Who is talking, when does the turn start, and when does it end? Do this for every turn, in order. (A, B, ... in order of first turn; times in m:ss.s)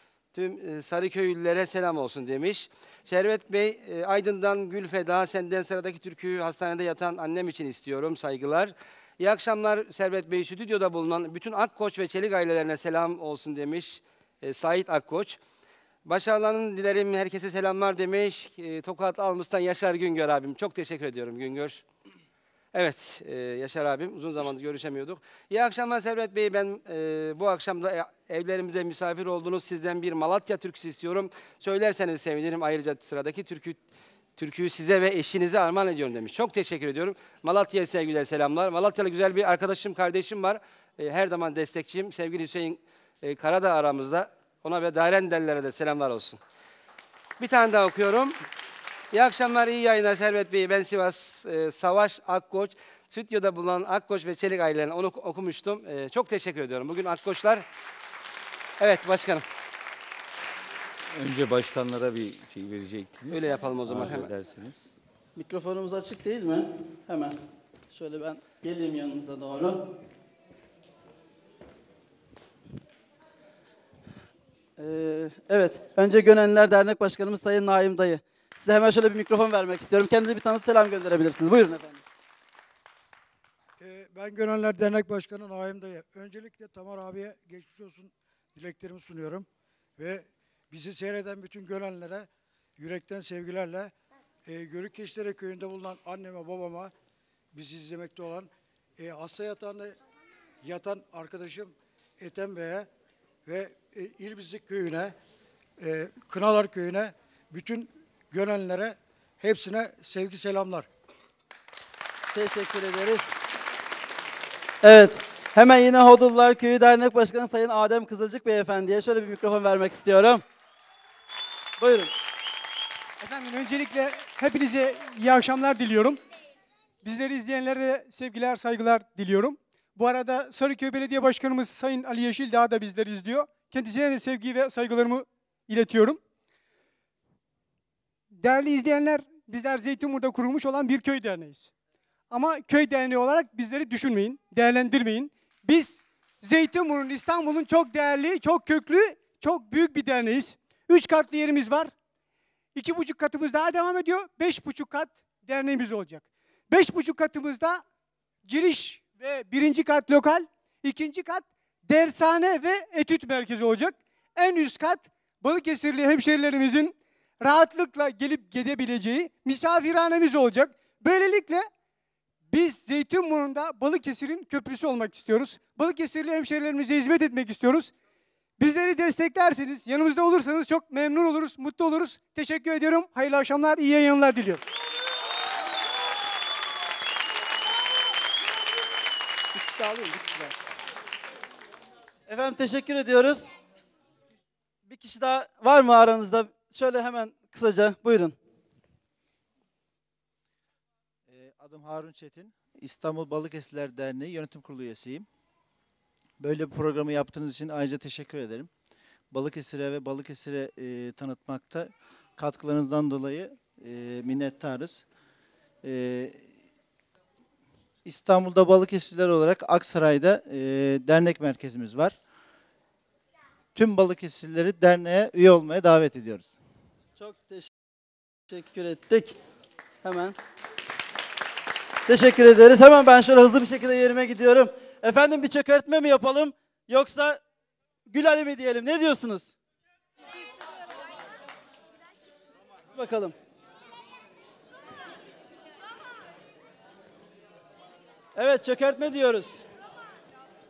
0:00.3-0:15.4 A
0:16.1-0:21.8 A
0:22.7-0:33.8 A
0:34.4-0:46.4 A
0:47.4-0:48.4 A
0:49.1-0:57.6 A
0:58.8-0:59.4 A
1:01.1-1:04.9 B
1:03.3-1:04.3 A
1:05.4-1:07.4 C
1:07.9-1:09.8 C
1:14.8-1:22.0 C
1:23.8-1:33.9 D
1:34.5-1:36.9 D
1:37.5-1:40.0 D
1:40.6-1:42.9 D
1:43.5-1:45.2 D
1:45.8-1:50.9 D
1:52.3-1:53.3 C
1:54.8-2:00.4 C
2:01.8-2:02.1 C
2:03.2-2:06.2 E
2:07.0-2:16.2 E
2:18.4-2:21.7 E
2:22.3-2:31.9 E
2:32.8-2:37.8 E
2:38.5-2:51.7 E
2:52.5-2:57.9 E
2:58.6-3:04.6 E
3:09.6-3:10.5 C
3:12.3-3:13.5 C
3:14.9-3:18.4 C
3:21.3-3:25.3 F
3:26.4-3:28.7 F
3:29.3-3:35.0 F
3:35.8-3:36.4 F
3:38.0-3:42.2 F
3:43.8-3:46.6 F
3:47.2-3:47.7 C
3:48.5-3:49.4 C
3:50.0-3:50.4 C
3:52.1-3:57.4 C
3:58.1-3:59.5 C
4:03.0-4:03.4 C
4:08.4-4:09.6 C